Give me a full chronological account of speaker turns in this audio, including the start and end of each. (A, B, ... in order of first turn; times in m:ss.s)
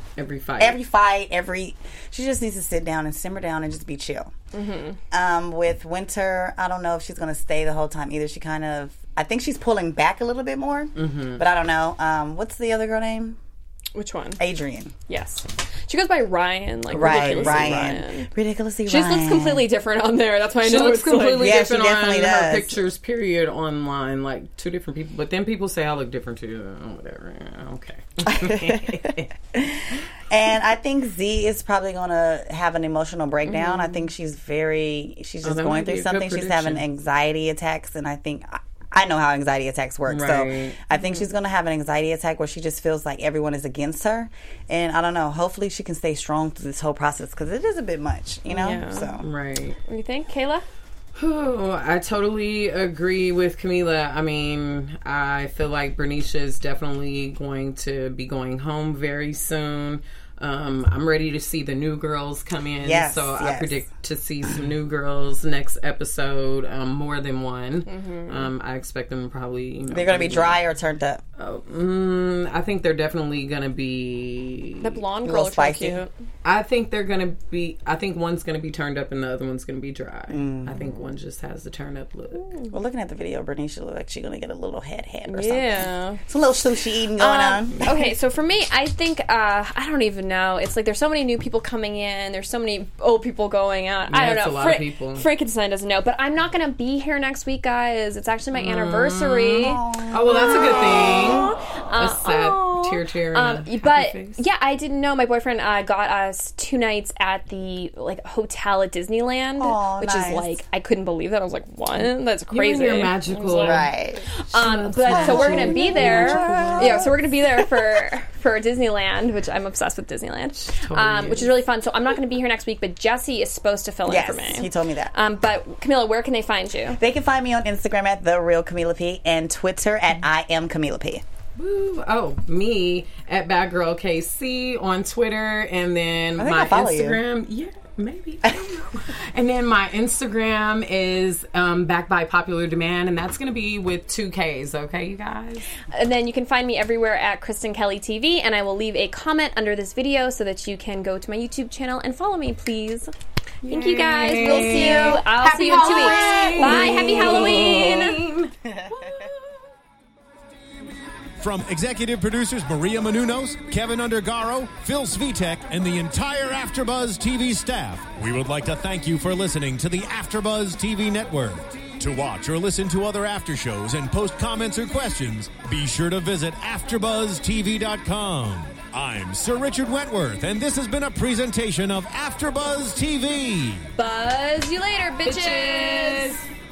0:00.2-0:00.8 A
0:00.6-0:04.3 B
0:04.5-0:05.0 C
0:05.1-0:13.4 B
0:11.0-0:11.4 A
0:14.0-0:14.4 C
0:14.4-0:14.9 B
0:15.1-0:18.3 C
0:16.9-0:18.0 A
0:17.0-0:19.6 B
0:18.8-0:21.6 C
0:20.6-0:29.4 A
0:21.4-0:22.8 B
0:28.2-0:49.3 B
0:35.4-0:36.8 A
0:40.1-0:40.8 A
0:40.9-0:41.3 C
0:48.5-0:49.1 C
0:49.2-0:49.8 A
0:49.9-0:50.6 C
0:51.2-1:10.6 A
1:02.8-1:03.8 B
1:07.9-1:08.5 C
1:09.9-1:11.2 B
1:11.4-1:15.0 A
1:14.8-1:16.1 C
1:15.2-1:16.0 B
1:16.4-1:22.4 A
1:20.3-1:20.8 B
1:22.4-1:22.7 C
1:22.7-1:27.8 B
1:25.3-1:26.2 C
1:27.2-1:39.8 C
1:27.8-1:28.1 A
1:34.1-1:35.3 A
1:38.6-1:44.4 A
1:39.6-1:41.4 B
1:40.3-2:07.0 C
1:49.6-1:50.6 B
1:52.5-1:53.9 A
1:53.5-1:54.2 B
1:54.5-1:57.0 A
1:55.0-1:58.0 B
2:00.6-2:01.5 A
2:04.1-2:05.1 B
2:07.0-2:11.2 B
2:11.6-2:25.7 A
2:16.4-2:17.2 B
2:25.9-2:33.1 C
2:33.6-2:38.5 A
2:33.7-2:38.2 C
2:38.6-2:39.3 B
2:41.4-3:03.9 D
3:04.0-3:06.4 C
3:05.2-3:06.4 A